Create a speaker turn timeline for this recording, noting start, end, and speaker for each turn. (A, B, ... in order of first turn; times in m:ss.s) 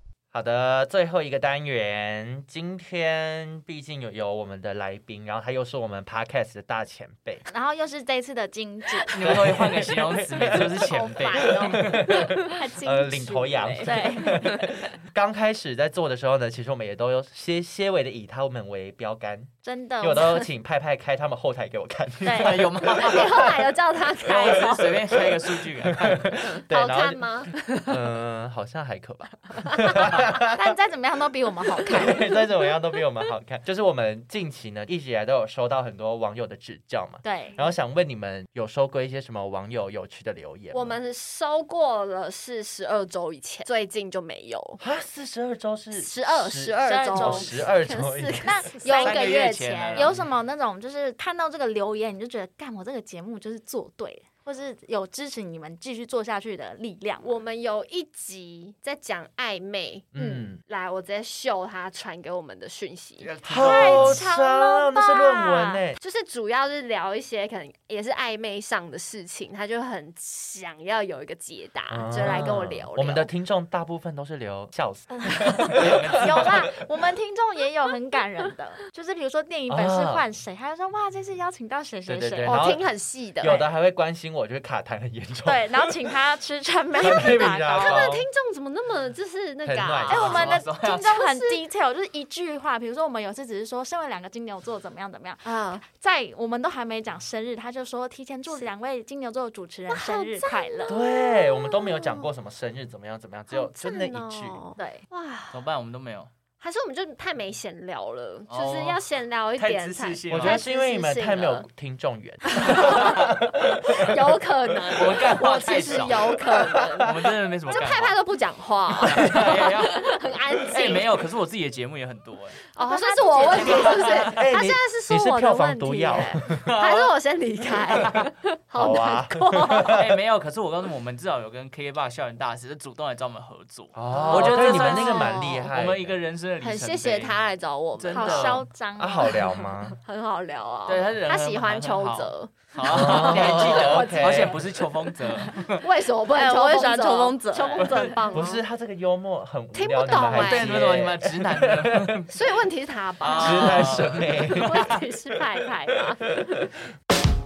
0:00.3-0:07.4 A
0:07.5-0:09.1 B
0:09.1-0:12.2 C
0:09.2-0:10.8 A
0:10.4-0:14.9 D
0:11.6-0:23.7 A
0:13.8-0:14.4 B
0:19.6-0:20.5 B
0:22.2-0:22.5 B
0:22.3-0:23.5 C
0:23.0-0:25.2 D
0:24.2-0:26.4 C
0:24.3-0:24.6 A
0:25.8-0:27.2 A
0:26.7-0:27.9 D
0:27.7-0:30.6 A
0:30.4-0:32.1 B
0:31.8-0:41.0 A
0:32.0-0:32.4 D
0:37.2-0:37.6 B
0:40.7-0:44.8 D
0:44.8-0:48.5 A
0:45.9-0:50.1 D
0:46.8-0:47.6 B
0:48.4-0:57.3 B
0:48.9-0:50.2 C
0:57.2-1:04.1 D
1:00.1-1:00.6 A
1:00.2-1:00.5 B
1:03.2-1:04.2 C
1:03.4-1:06.0 A
1:03.5-1:05.8 B
1:06.0-1:13.3 D
1:11.9-1:16.7 A
1:15.3-1:15.7 D
1:15.7-1:16.6 C
1:16.1-1:22.7 B
1:19.7-1:20.2 A
1:22.1-1:22.8 A
1:22.4-1:23.6 D
1:23.4-1:25.9 A
1:25.4-1:28.1 B
1:27.0-1:28.3 A
1:27.7-1:30.4 D
1:29.6-1:30.3 A
1:30.1-1:41.0 B
1:30.1-1:31.0 C
1:31.0-1:31.6 D
1:35.4-1:35.8 D
1:39.9-1:42.3 D
1:40.9-1:44.6 A
1:43.5-1:45.6 D
1:44.8-1:45.0 B
1:45.5-1:46.3 C
1:46.6-1:51.6 D
1:48.5-1:50.6 C
1:50.3-1:55.1 A
1:52.5-1:57.1 D
1:54.9-1:58.1 C
1:56.5-1:57.1 A
1:57.7-2:01.1 D
1:59.0-2:02.6 C
2:02.7-2:10.0 D
2:02.8-2:04.2 B
2:03.4-2:04.3 C
2:04.4-2:06.7 A
2:06.6-2:07.1 C
2:07.6-2:08.3 C
2:08.7-2:10.1 A
2:09.8-2:17.4 C
2:13.9-2:16.2 A
2:14.1-2:15.7 D
2:16.6-2:18.6 D
2:18.0-2:18.6 C
2:18.1-2:19.4 B
2:19.0-2:20.0 A
2:20.0-2:24.7 D
2:20.9-2:25.8 C
2:22.8-2:24.6 A
2:25.8-2:28.6 D
2:26.3-2:28.2 B
2:27.8-2:28.2 C
2:28.3-2:32.2 A
2:29.7-2:30.8 D
2:30.2-2:32.4 C
2:32.3-2:36.6 D
2:33.2-2:35.4 C
2:33.3-2:34.8 A